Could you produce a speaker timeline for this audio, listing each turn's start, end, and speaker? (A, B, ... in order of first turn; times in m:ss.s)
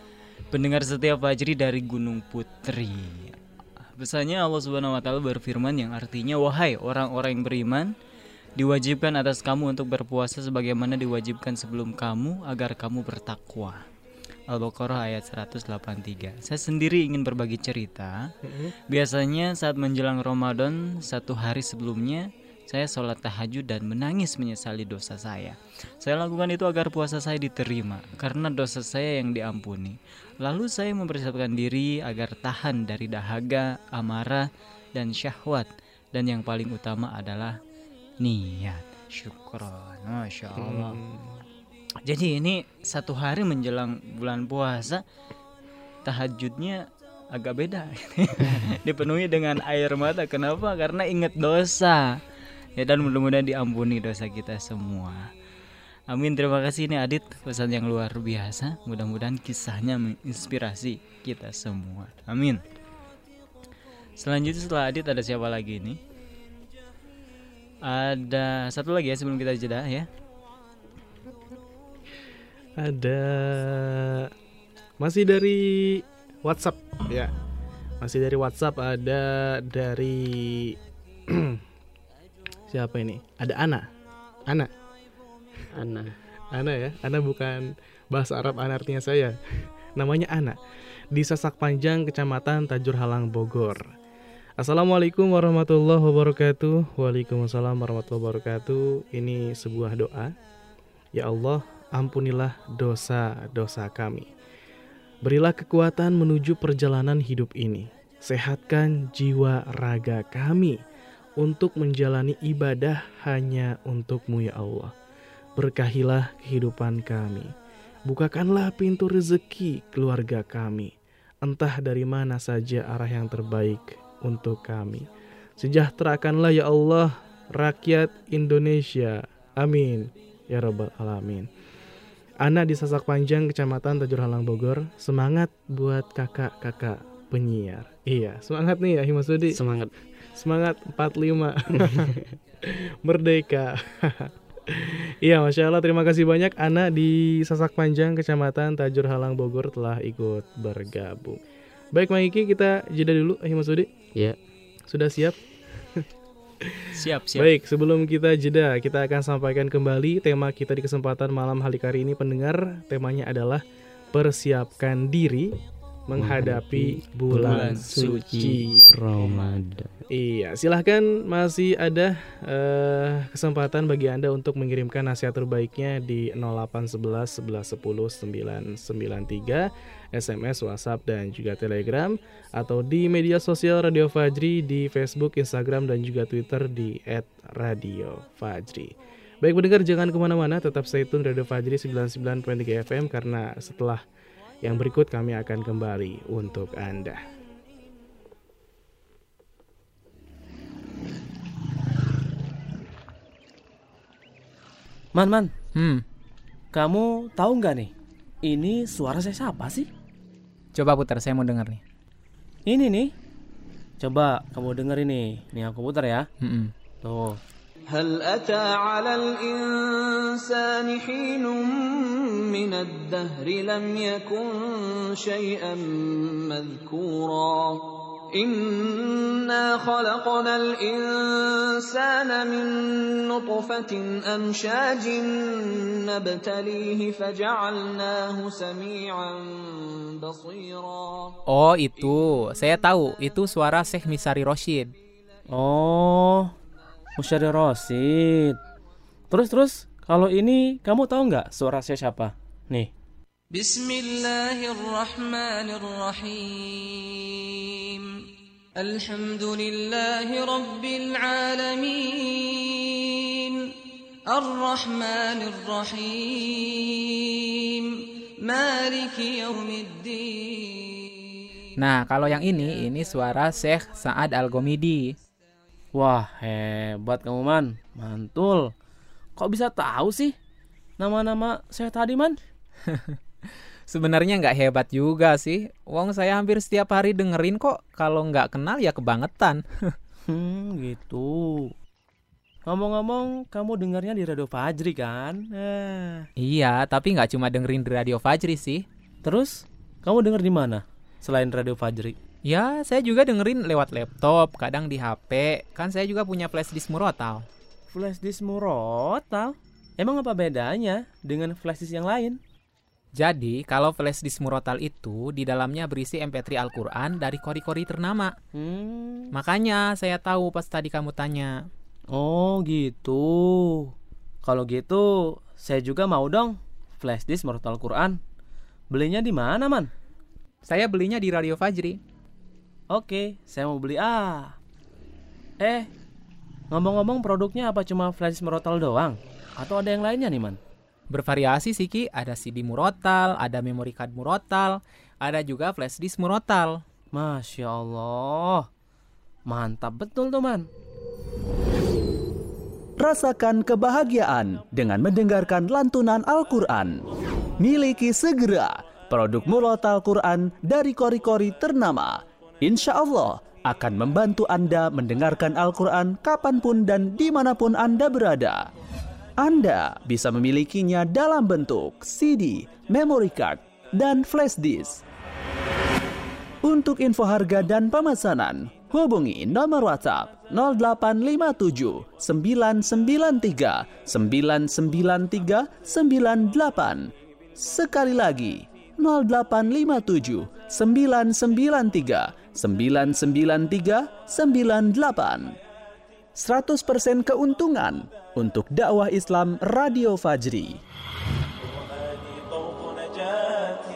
0:00.5-0:03.4 A
0:04.0-0:07.9 A
0:08.6-0:13.8 A
0:14.5-0:18.2 A
0:18.4-0:18.7 B
0:18.9-0:37.6 A
0:38.2-0:41.0 A
0:40.6-0:41.4 B
0:42.0-0:45.0 A
0:46.0-0:52.2 A
0:52.8-0:55.3 A
0:56.1-1:02.6 A
1:04.2-1:06.0 A
1:07.8-1:10.1 A
1:12.8-1:14.3 B
1:15.0-1:17.3 B
1:18.0-1:20.8 B
1:21.3-1:21.6 B
1:22.7-1:23.8 B
1:25.7-1:26.1 C
1:26.5-1:29.4 B
1:30.0-1:30.6 B
1:31.1-1:33.9 B
1:34.6-1:40.3 B
1:41.1-1:44.3 B
1:45.2-1:50.8 B
1:51.4-1:54.9 B
1:55.6-1:57.5 B
1:58.1-2:05.0 B
2:05.6-2:11.5 B
2:12.4-2:19.6 B
2:19.5-2:19.9 C
2:20.4-2:31.4 B
2:21.8-2:22.2 C
2:31.9-2:33.9 B
2:34.9-2:36.0 B
2:36.6-2:43.6 B
2:36.9-2:37.5 A
2:44.1-2:45.5 B
2:46.1-2:48.8 B
2:46.2-2:50.0 C
2:47.4-2:48.4 A
2:49.2-2:49.5 A
2:50.1-3:08.9 B
3:09.4-3:14.0 B
3:14.6-3:17.2 B
3:25.1-3:25.5 D
3:25.8-3:26.0 E
3:26.7-3:27.9 D
3:28.4-3:29.8 D
3:30.7-3:31.8 E
3:32.7-3:33.1 D
3:34.0-3:36.2 D
3:36.4-3:36.7 E
3:37.0-3:37.4 D
3:37.9-4:01.3 F
4:01.5-4:04.9 E
4:05.5-4:06.5 D
4:07.2-4:08.6 D
4:09.3-4:12.9 D
4:13.5-4:18.0 F
4:18.8-4:23.6 F
4:24.3-4:27.9 F
4:28.4-4:31.0 F
4:31.8-4:35.1 E
4:35.9-4:38.7 D
4:39.4-4:40.3 D
4:41.0-4:42.3 D
4:42.9-4:43.2 E
4:43.9-4:49.9 E
4:50.3-4:51.7 D
4:52.7-4:56.3 D
4:56.4-4:58.8 E
4:59.2-5:02.1 D
5:02.4-5:07.4 E
5:07.9-5:12.4 D
5:13.1-5:18.3 E
5:18.5-5:19.3 D
5:19.3-5:21.7 E
5:22.1-5:23.9 D
5:24.4-5:28.2 D
5:28.9-5:29.9 D
5:30.6-5:32.0 E
5:32.9-5:34.5 D
5:35.6-5:35.9 D
5:36.7-5:40.6 D
5:41.1-5:46.8 E
5:47.1-5:48.7 D
5:49.5-5:50.7 D
5:53.0-5:57.0 G
5:57.6-6:08.6 G
6:09.4-6:15.0 G
6:16.6-6:35.5 G
6:36.4-6:40.8 G